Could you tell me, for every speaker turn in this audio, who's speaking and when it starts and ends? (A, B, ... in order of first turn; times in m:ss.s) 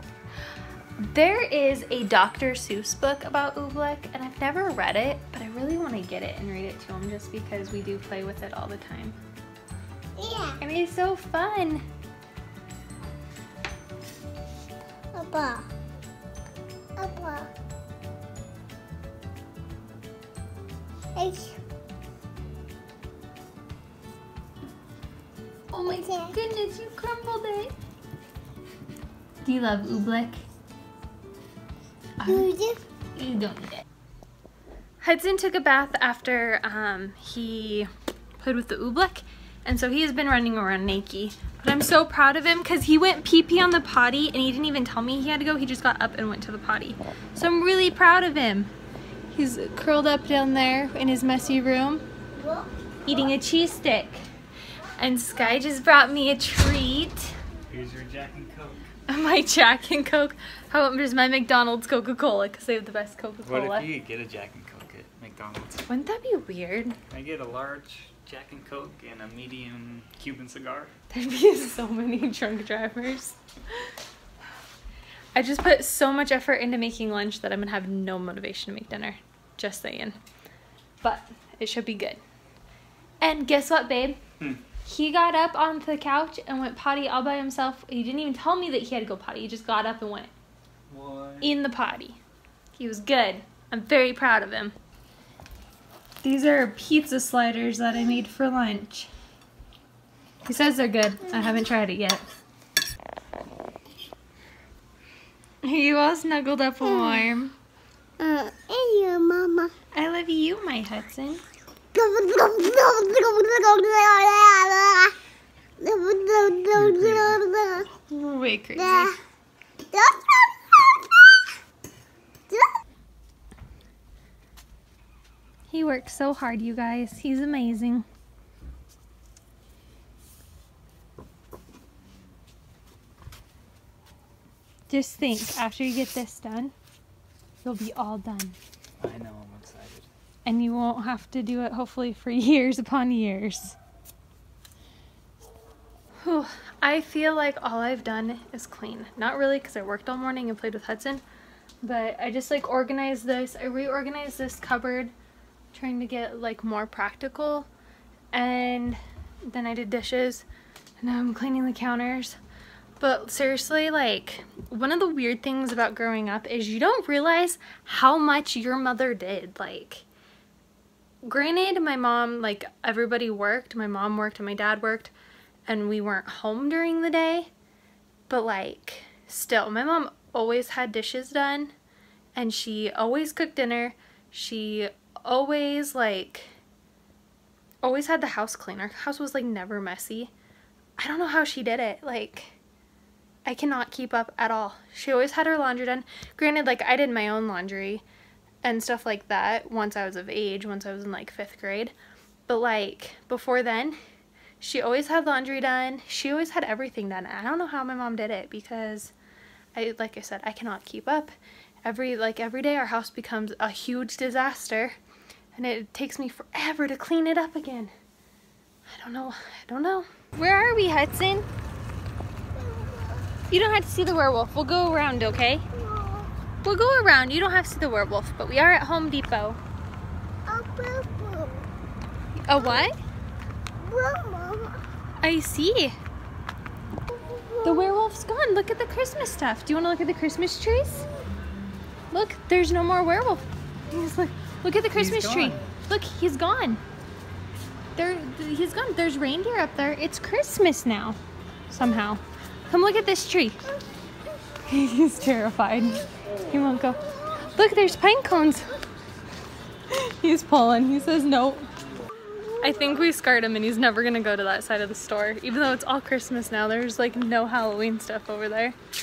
0:01.0-0:09.2 A
0:10.2-0:10.6 B
0:10.6-0:11.8 A
0:15.1-0:15.7 B
0:17.0-0:17.5 B
0:21.2-0:21.6 B
0:25.7-0:27.7 A
0:26.0-0:26.4 B
0:29.4-0:30.4 A
0:32.2-0:32.5 A
0:32.2-0:32.8 B
0:33.2-0:33.8 A
0:35.0-0:48.7 A
0:49.3-0:52.0 A
0:52.4-0:52.7 B
0:53.1-0:54.2 A
0:55.0-0:57.4 A
0:57.7-0:58.8 C
0:59.1-1:03.9 A
1:03.4-1:05.9 C
1:05.9-1:07.0 A
1:07.1-1:10.9 C
1:11.1-1:13.4 A
1:15.4-1:20.2 A
1:21.0-1:22.2 A
1:23.2-1:24.2 A
1:24.8-1:30.3 A
1:30.9-1:31.5 C
1:31.4-1:32.2 A
1:32.8-1:34.7 A
1:36.2-1:39.1 A
1:40.4-1:42.2 A
1:45.6-1:47.6 A
1:46.8-1:47.3 B
1:48.2-1:49.7 B
1:49.9-1:51.4 A
1:51.9-1:55.2 B
1:55.8-1:57.9 B
1:56.8-1:57.4 C
1:58.1-1:59.1 A
1:58.8-1:59.2 B
1:59.9-2:01.4 B
2:05.7-2:08.1 A
2:14.9-2:16.7 A
2:17.6-2:18.6 A
2:19.0-2:20.1 C
2:20.4-2:23.8 A
2:26.2-2:31.2 A
2:31.8-2:35.1 A
2:35.7-2:37.7 A
2:38.3-2:40.5 A
2:41.0-2:42.4 A
2:43.0-2:50.1 A
2:51.2-2:55.1 A
2:55.7-2:57.5 A
2:58.3-3:01.7 A
3:02.4-3:06.6 A
3:07.8-3:10.3 A
3:11.0-3:12.6 A
3:13.4-3:18.0 A
3:18.6-3:21.9 A
3:22.5-3:24.0 A
3:24.6-3:29.1 A
3:29.8-3:35.0 A
3:35.6-3:37.9 A
3:38.9-3:41.5 A
3:42.5-3:43.3 B
3:43.5-3:45.6 A
3:45.7-3:46.3 B
3:46.6-3:49.6 A
3:50.5-3:51.7 B
3:52.4-3:53.0 A
3:52.5-3:52.9 B
3:53.8-3:54.8 B
3:55.2-3:56.0 A
3:57.1-3:58.0 B
3:57.6-4:01.1 A
4:02.1-4:06.8 A
4:04.9-4:05.6 C
4:08.0-4:13.6 A
4:14.7-4:17.0 A
4:17.6-4:18.8 A
4:19.9-4:21.7 A
4:22.3-4:22.6 B
4:22.6-4:28.8 A